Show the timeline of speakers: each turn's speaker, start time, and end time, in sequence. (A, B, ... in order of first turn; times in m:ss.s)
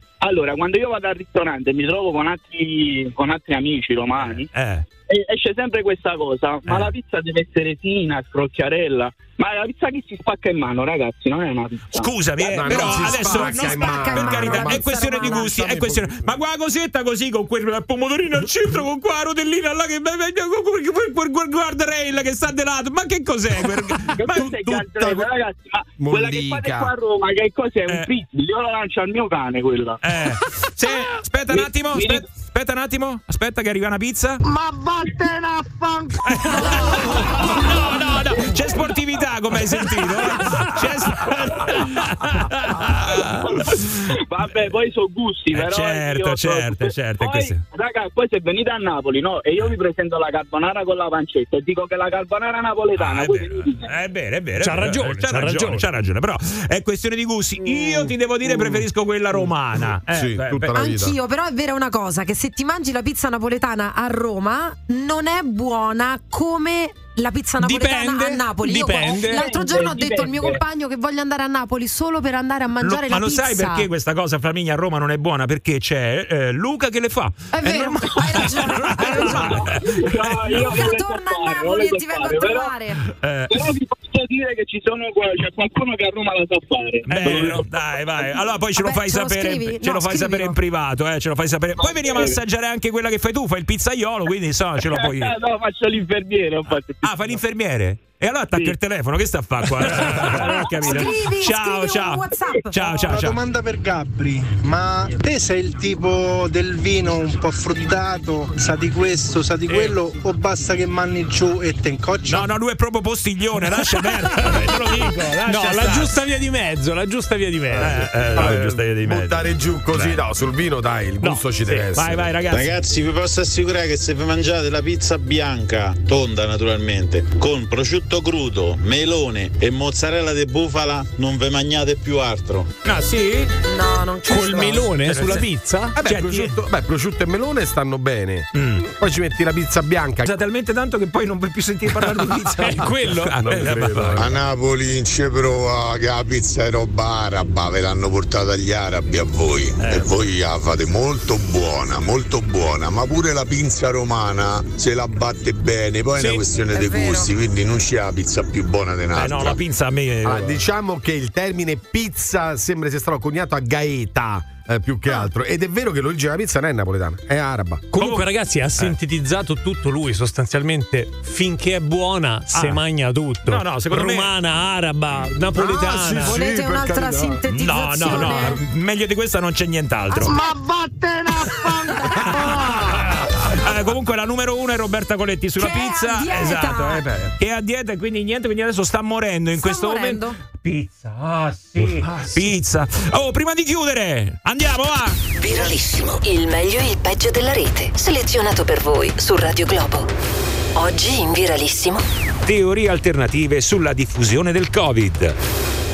0:00.2-0:04.5 A
0:04.2-0:04.8 B
0:05.1-0:12.5 A
0:06.7-0:06.9 B
0:11.9-0:24.8 B
0:12.5-0:16.3 C
0:12.7-0:15.5 D
0:24.2-0:30.0 A
0:24.3-0:25.2 C
0:26.0-0:26.9 C
0:30.0-0:34.4 B
0:31.5-0:32.2 A
0:34.4-0:36.3 E
0:36.3-0:44.7 B
0:43.1-0:53.9 A
0:45.5-0:47.6 B
0:53.0-1:00.8 B
0:54.6-0:55.8 F
0:58.5-0:58.8 C
1:00.1-1:01.2 C
1:00.8-1:13.9 D
1:07.6-1:09.4 F
1:09.0-1:10.6 A
1:12.8-1:20.6 B
1:17.5-1:19.7 D
1:19.4-1:22.7 A
1:20.5-1:23.0 D
1:23.2-1:23.6 B
1:23.5-1:28.4 A
1:27.1-1:35.3 B
1:28.8-1:30.6 D
1:31.8-1:32.4 A
1:34.8-1:37.4 A
1:37.0-1:43.4 B
1:40.5-1:42.7 D
1:43.1-1:52.3 G
1:49.7-1:49.9 B
1:52.3-1:56.2 B
1:54.5-1:58.6 F
1:57.8-2:02.3 C
1:57.8-2:00.2 B
2:01.7-2:02.7 B
2:02.5-2:12.7 H
2:12.8-2:13.5 B
2:13.6-2:14.8 D
2:14.3-2:16.0 F
2:15.0-2:15.5 B
2:16.0-2:20.3 C
2:16.0-2:16.6 B
2:18.6-2:18.9 B
2:20.3-2:24.2 B
2:22.3-2:23.4 F
2:23.4-2:24.4 C
2:24.2-2:39.6 E
2:29.8-2:30.0 B
2:36.7-2:37.3 D
2:39.1-2:40.6 B
2:40.2-2:47.8 C
2:47.9-2:56.4 F
2:48.0-2:49.0 B
2:52.5-2:52.8 B
2:53.5-2:54.4 B
2:55.5-2:57.4 C
2:56.2-2:58.6 D
2:57.5-3:00.4 B
2:58.1-2:58.5 C
3:00.3-3:02.0 E
3:02.0-3:02.3 D
3:02.2-3:15.2 B
3:05.6-3:07.1 D
3:09.5-3:10.4 D
3:16.2-3:20.1 I
3:20.8-3:22.0 I
3:22.5-3:25.4 B